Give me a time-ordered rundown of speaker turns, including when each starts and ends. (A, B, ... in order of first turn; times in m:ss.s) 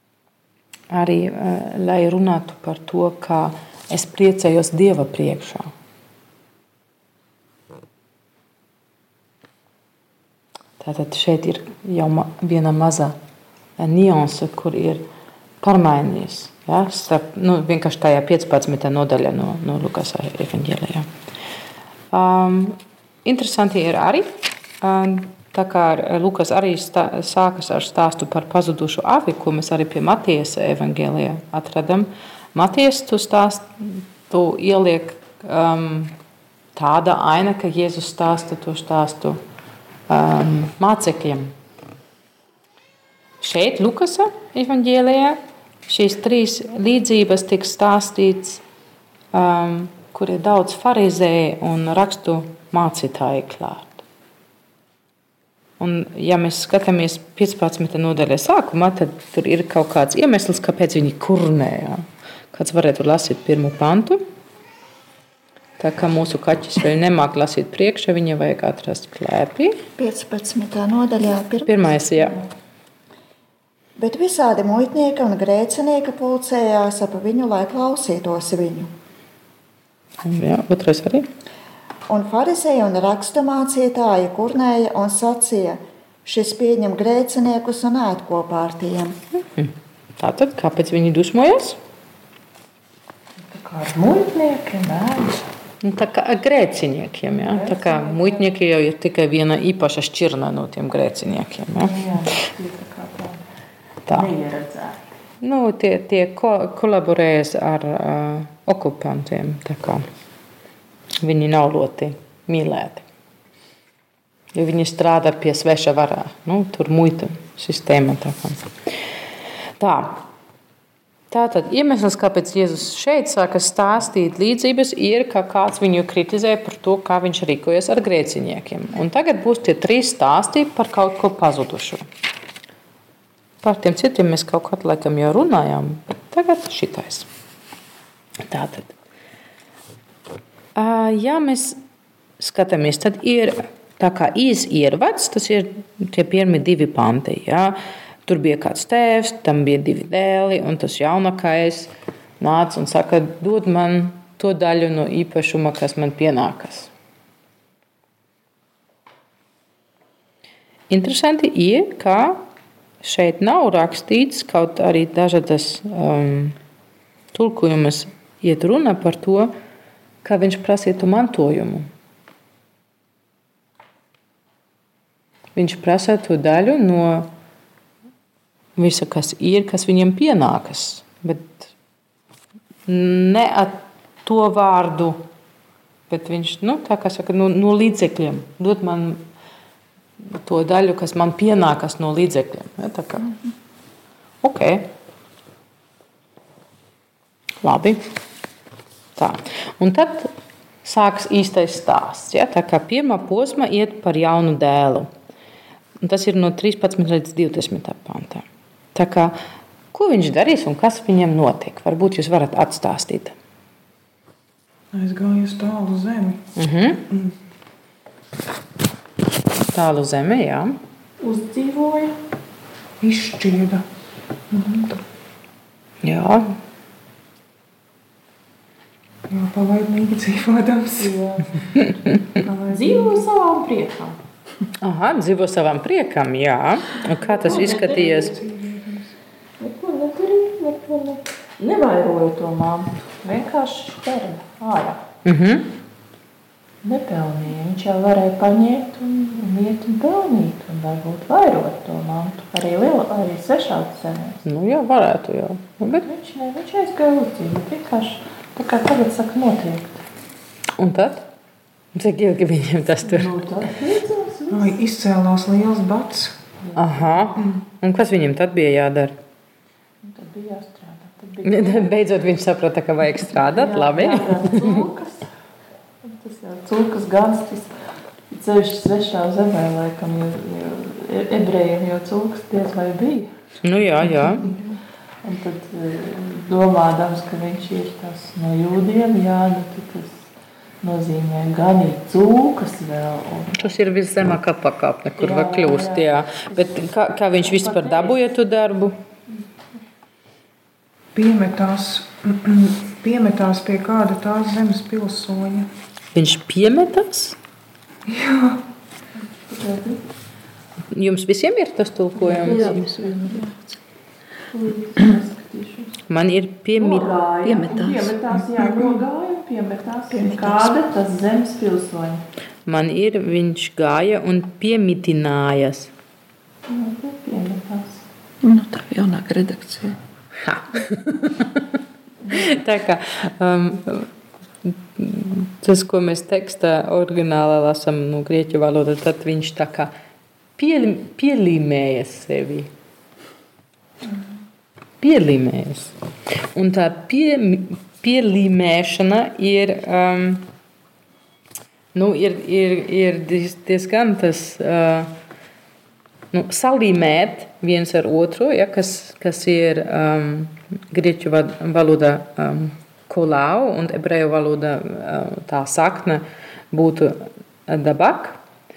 0:00.9-0:05.7 A
0:10.8-0:13.1 A
0:13.8-0:15.0 A
0:15.6-0:21.1 A
0:22.1-0:36.1 A
0:36.8-0:39.4 A
0:40.1-0:41.5 A
0:43.4-0:48.6 A
0:49.3-0:54.0 A
0:55.8-1:04.2 A
1:05.8-1:09.8 A
1:10.0-1:11.9 B
1:11.6-1:12.4 A
1:14.0-1:18.9 B
1:20.2-1:21.3 A
1:22.1-1:29.2 B
1:29.5-1:31.8 A
1:33.4-1:35.5 C
1:35.8-1:42.0 A
1:37.3-1:38.5 C
1:41.8-1:43.4 C
1:44.1-1:45.0 C
1:45.4-1:50.0 A
1:51.2-1:53.0 A
1:54.6-1:58.7 A
1:59.8-2:00.2 A
2:01.3-2:12.0 A
2:13.6-2:17.3 A
2:18.5-2:18.9 A
2:20.8-2:21.8 A
2:22.4-2:36.9 A
2:40.9-2:42.4 A
2:43.0-2:46.6 A
2:47.3-2:49.5 A
2:50.2-2:51.9 A
2:55.6-2:57.3 A
2:58.8-3:01.7 A
3:02.9-3:05.2 A
3:06.1-3:09.2 A
3:10.3-3:13.4 A
3:14.4-3:14.9 A
3:17.6-3:18.1 A
3:19.2-3:20.3 A
3:20.8-3:25.1 A
3:26.0-3:29.4 A
3:29.9-3:33.4 A
3:34.9-3:36.4 D
3:36.6-3:37.0 A
3:39.7-3:40.8 A
3:41.2-3:42.2 C
3:43.0-3:43.8 D
3:44.5-3:45.0 D
3:46.0-3:46.6 A
3:49.3-3:51.1 D
3:51.0-3:51.6 C
3:52.4-3:53.2 D
3:52.7-3:54.2 C
3:54.8-3:58.3 A
3:57.1-3:58.4 C
3:57.5-3:59.1 D
3:59.6-4:05.0 C
4:05.2-4:05.7 A
4:06.8-4:14.4 C
4:14.4-4:16.0 A
4:15.9-4:20.0 C
4:20.8-4:21.3 A
4:22.0-4:23.4 A
4:23.0-4:24.8 C
4:24.5-4:26.4 D
4:26.6-4:27.5 C
4:26.8-4:29.2 A
4:30.0-4:32.0 C
4:31.4-4:34.7 A
4:33.3-4:35.3 C
4:36.0-4:37.7 C
4:38.3-4:43.3 C
4:43.6-4:44.5 A
4:44.0-4:44.6 C
4:45.2-4:50.3 C
4:50.8-4:53.8 C
4:53.6-4:59.0 A
4:55.2-4:56.8 C
4:57.4-4:58.2 C
5:01.1-5:05.7 D
5:06.1-5:07.4 A
5:08.1-5:08.6 D
5:09.2-5:10.0 C
5:10.9-5:13.0 A
5:12.2-5:13.4 C
5:12.4-5:13.8 E
5:14.5-5:16.0 C
5:16.1-5:17.2 A
5:16.8-5:22.2 C
5:17.4-5:19.0 E
5:20.1-5:20.7 E
5:22.7-5:25.9 A
5:26.7-5:28.0 C
5:28.4-5:30.0 E
5:30.4-5:31.6 A
5:32.3-5:34.1 A
5:34.6-5:39.9 A
5:40.6-5:42.7 A
5:45.0-5:45.9 A
5:46.6-5:50.5 A
5:51.9-5:55.1 A
5:56.3-6:08.4 A